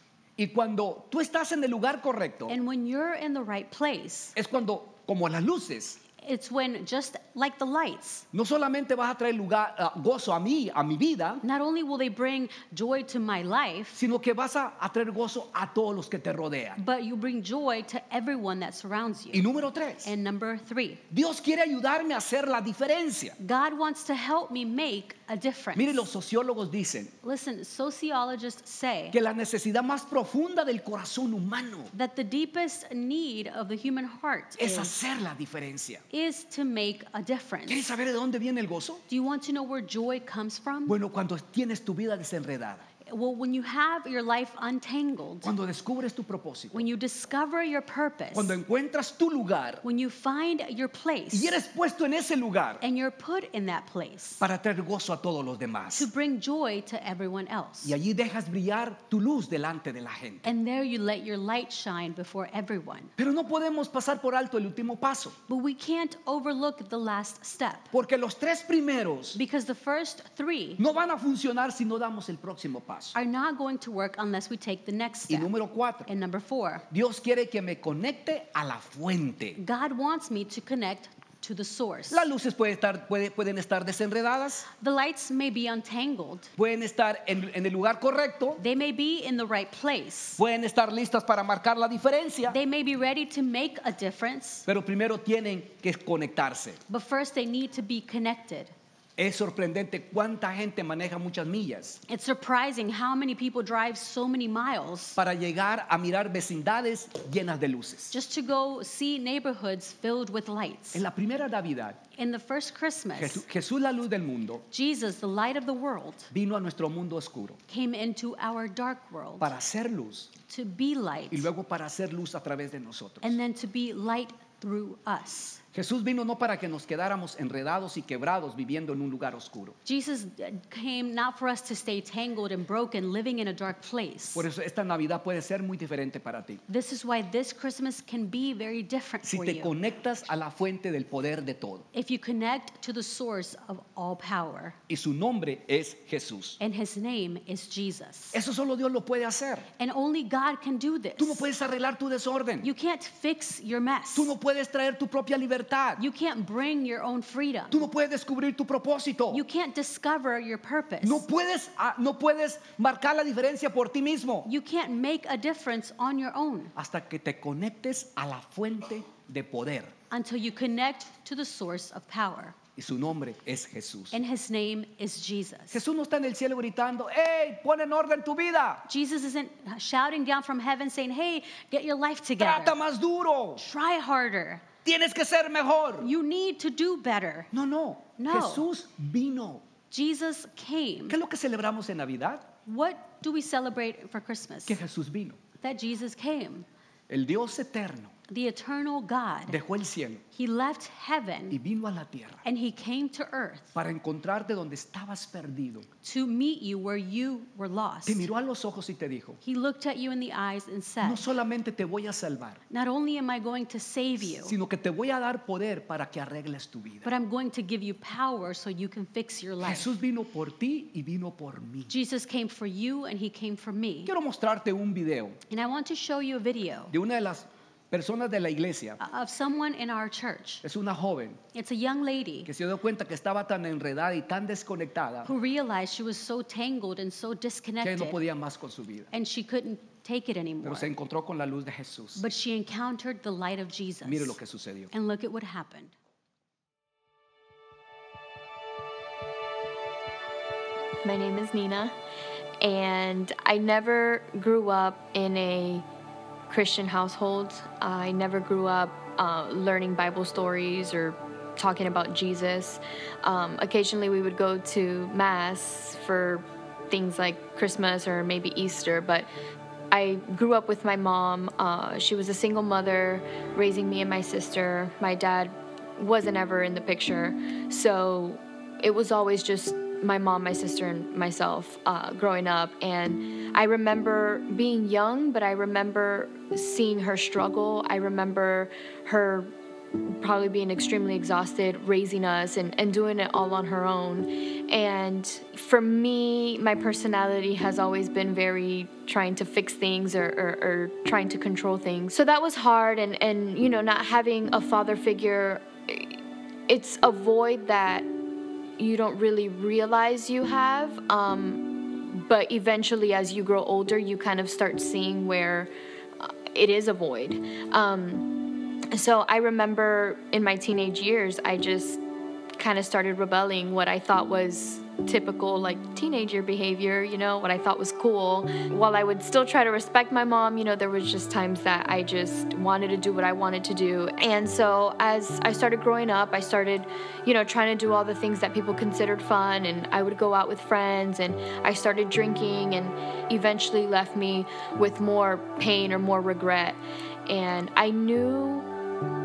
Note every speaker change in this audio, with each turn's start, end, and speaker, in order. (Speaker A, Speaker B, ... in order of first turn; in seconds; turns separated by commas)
Speaker A: 0.4-2.6, Speaker B: 2.5-4.3, Speaker A: 4.3-6.0, Speaker B: 6.2-8.2, Speaker A: 8.3-11.4, Speaker B: 11.4-14.0, Speaker A: 13.9-16.8, Speaker B: 16.8-19.4, Speaker A: 19.3-20.1, Speaker B: 20.0-21.0, Speaker A: 21.1-23.4, Speaker B: 23.4-26.1, Speaker A: 25.8-27.1, Speaker B: 27.2-29.2, Speaker A: 29.1-31.9, Speaker B: 31.9-34.9, Speaker A: 34.6-36.0, Speaker B: 36.1-37.9, Speaker A: 37.7-39.0, Speaker B: 39.1-40.9, Speaker A: 40.9-42.9, Speaker B: 43.0-45.5, Speaker A: 45.4-46.9, Speaker B: 46.7-48.6, Speaker A: 48.3-49.9, Speaker B: 49.8-51.6, Speaker A: 51.3-52.8, Speaker B: 52.8-54.4, Speaker A: 54.4-56.1, Speaker B: 55.9-57.9, Speaker A: 57.8-60.5, Speaker B: 60.4-63.1, Speaker A: 63.2-65.4, Speaker B: 65.5-67.9, Speaker A: 67.9-69.4, Speaker B: 69.3-70.8, Speaker A: 70.8-73.2, Speaker B: 73.1-75.5, Speaker A: 75.3-76.1, Speaker B: 76.1-76.9, Speaker A: 76.9-79.6, Speaker B: 79.5-82.3, Speaker A: 82.1-84.7, Speaker B: 84.7-86.5, Speaker A: 86.6-88.6, Speaker B: 88.6-90.4, Speaker A: 90.4-92.6, Speaker B: 92.5-94.6, Speaker A: 94.7-96.8, Speaker B: 96.9-98.7, Speaker A: 99.2-102.0, Speaker B: 102.1-105.2, Speaker A: 105.2-108.1, Speaker B: 108.1-111.0, Speaker A: 110.9-112.0, Speaker B: 112.2-113.4, Speaker A: 113.2-114.6, Speaker B: 114.7-116.3, Speaker A: 116.3-117.6, Speaker B: 117.7-119.5, Speaker A: 119.4-120.3, Speaker B: 120.5-121.5, Speaker A: 121.3-123.4, Speaker B: 123.2-125.6, Speaker A: 125.7-129.8, Speaker B: 129.8-134.4, Speaker A: 134.3-136.6, Speaker B: 136.7-139.7, Speaker A: 139.2-141.9, Speaker B: 141.9-144.8, Speaker A: 144.9-146.6, Speaker B: 146.6-148.4, Speaker A: 148.3-149.7, Speaker B: 149.8-151.5, Speaker A: 151.2-152.7, Speaker B: 152.6-154.3, Speaker A: 154.1-156.0, Speaker B: 156.0-157.9, Speaker A: 157.7-159.4, Speaker B: 159.3-161.2, Speaker A: 161.0-164.5, Speaker B: 164.4-166.7, Speaker A: 166.7-169.9, Speaker B: 170.1-172.6, Speaker A: 172.8-174.2, Speaker B: 174.1-175.8, Speaker A: 175.7-178.8, Speaker B: 178.9-182.8, Speaker A: 182.4-183.6, Speaker B: 183.6-184.6, Speaker A: 184.8-186.1, Speaker B: 186.0-187.5, Speaker A: 187.5-189.6, Speaker B: 188.2-188.6, Speaker B: 189.9-191.2, Speaker A: 191.1-192.5, Speaker B: 192.6-194.8, Speaker A: 194.7-195.4, Speaker B: 195.6-196.7, Speaker A: 197.1-198.1, Speaker B: 198.3-199.6, Speaker A: 199.5-200.2, Speaker B: 200.3-201.6, Speaker A: 201.5-202.4, Speaker B: 202.4-203.8, Speaker A: 203.7-205.9, Speaker B: 206.0-208.3, Speaker A: 208.1-209.4, Speaker B: 209.4-211.2, Speaker A: 211.0-212.6, Speaker B: 212.7-214.6, Speaker A: 214.4-217.1, Speaker B: 217.0-219.9, Speaker A: 219.6-221.9, Speaker B: 221.9-224.1, Speaker A: 224.1-225.4, Speaker B: 225.5-226.9, Speaker A: 226.9-229.0, Speaker B: 229.0-230.6, Speaker A: 230.6-231.4, Speaker B: 231.5-232.5, Speaker A: 232.4-235.3, Speaker B: 235.2-238.2, Speaker A: 237.8-239.1, Speaker B: 239.1-240.9, Speaker A: 240.6-242.2, Speaker B: 242.2-244.4, Speaker A: 244.0-244.9, Speaker B: 244.9-245.9, Speaker C: 251.0-251.9, Speaker C: 252.6-255.8, Speaker C: 256.5-269.3, Speaker C: 269.9-289.5, Speaker C: 290.1-306.1, Speaker C: 306.7-308.1, Speaker C: 308.8-318.4, Speaker C: 318.9-322.0, Speaker C: 322.6-348.7